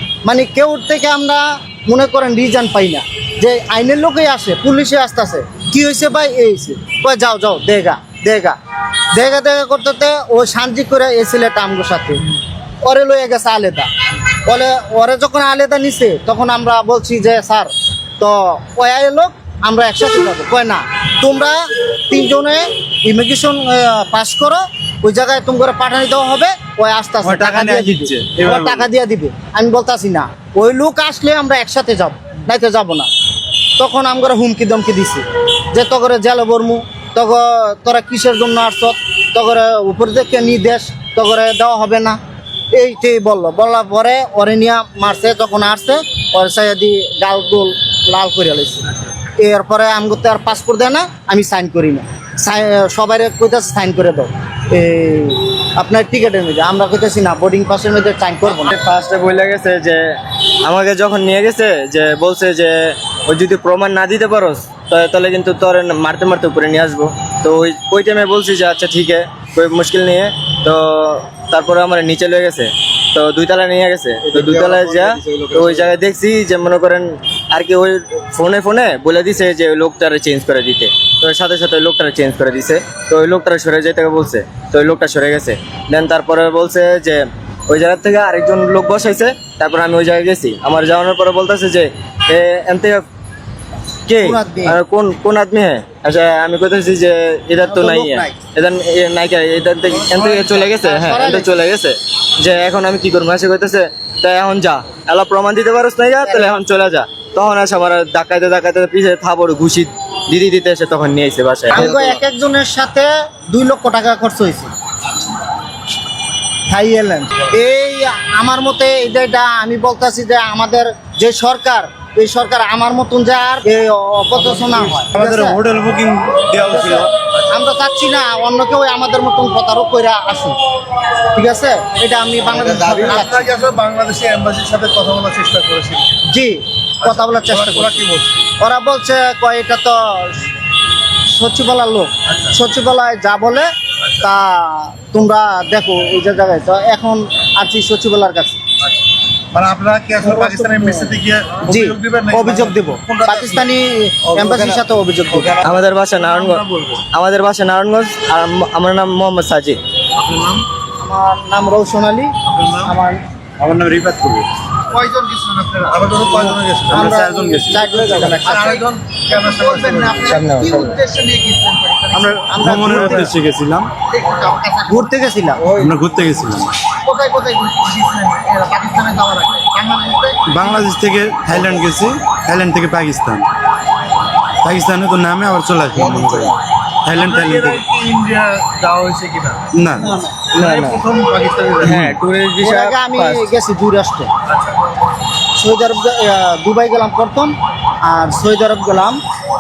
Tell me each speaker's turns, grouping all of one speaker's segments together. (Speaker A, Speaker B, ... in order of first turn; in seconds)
Speaker A: 0.2-8.6, 9.1-13.9, 14.4-33.1, 33.8-42.2, 42.7-58.7, 94.2-94.8, 97.6-98.4, 100.7-101.5, 106.2-106.5, 111.7-114.7, 116.7-125.6, 126.5-133.5, 136.2-138.1, 138.6-140.6, 141.2-148.6, 150.2-155.6, 161.0-163.2, 166.9-173.3, 174.1-175.8, 176.9-180.6, 192.6-194.3, 195.6-199.2
Speaker B: 27.2-28.9, 125.1-127.1, 163.6-164.5, 166.5-167.9, 172.1-173.9, 175.7-176.9, 180.5-183.5, 184.6-187.8, 189.7-190.2, 191.9-192.2
Speaker C: 58.6-93.0, 94.0-112.0, 155.6-159.8, 170.3-171.0, 190.4-191.0, 191.8-193.5
Speaker D: 100.0-100.7, 132.8-136.2, 137.0-138.4, 142.3-142.6, 149.5-153.7, 156.1-157.0, 160.2-160.7, 162.5-162.9, 164.9-167.2, 168.0-170.4, 187.1-192.1, 194.5-194.8